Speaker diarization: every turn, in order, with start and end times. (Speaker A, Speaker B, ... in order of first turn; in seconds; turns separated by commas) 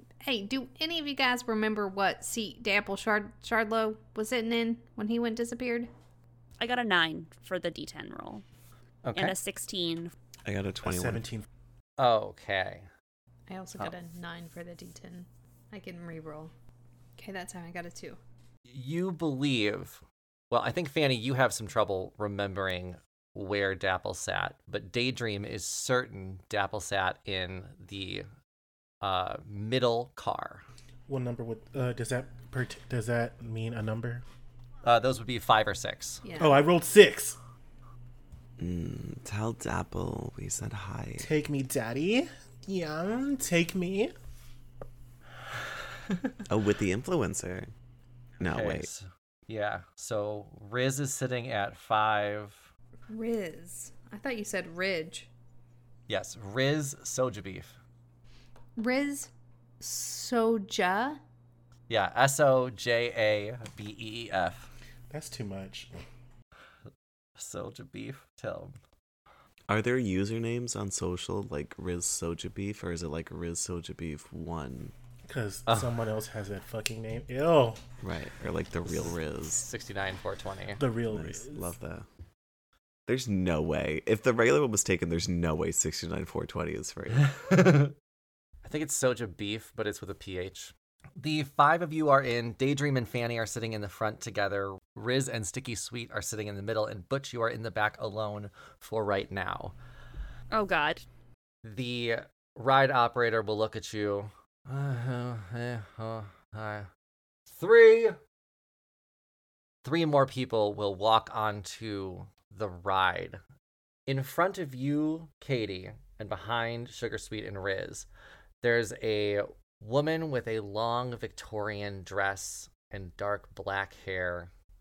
Speaker A: 0.2-5.9, Speaker B: 6.6-8.4, Speaker C: 9.0-9.3, Speaker B: 9.2-10.1, Speaker D: 10.5-11.3, Speaker E: 10.8-11.4, Speaker C: 12.0-12.9, Speaker A: 13.5-16.5, Speaker A: 17.2-18.2, Speaker C: 18.7-28.3, Speaker C: 29.0-30.6, Speaker E: 31.1-34.2, Speaker C: 34.9-36.2, Speaker A: 36.2-36.6, Speaker E: 36.4-37.4, Speaker D: 38.6-41.3, Speaker E: 41.2-44.1, Speaker D: 46.5-47.7, Speaker D: 48.4-48.9, Speaker C: 48.4-52.7, Speaker A: 53.1-55.3, Speaker C: 56.1-57.8, Speaker A: 58.8-61.2, Speaker C: 61.9-64.7, Speaker E: 65.1-65.9, Speaker C: 67.4-68.8, Speaker D: 69.7-74.9, Speaker E: 75.3-77.8, Speaker C: 75.7-76.0, Speaker D: 78.0-79.7, Speaker C: 79.5-80.8, Speaker E: 80.8-81.7, Speaker D: 81.1-82.1, Speaker D: 83.1-87.3, Speaker C: 87.3-87.9, Speaker C: 88.7-99.8, Speaker B: 100.5-101.0, Speaker C: 101.6-106.9, Speaker C: 107.5-108.2, Speaker C: 109.8-113.4, Speaker C: 114.1-118.1, Speaker C: 118.6-124.5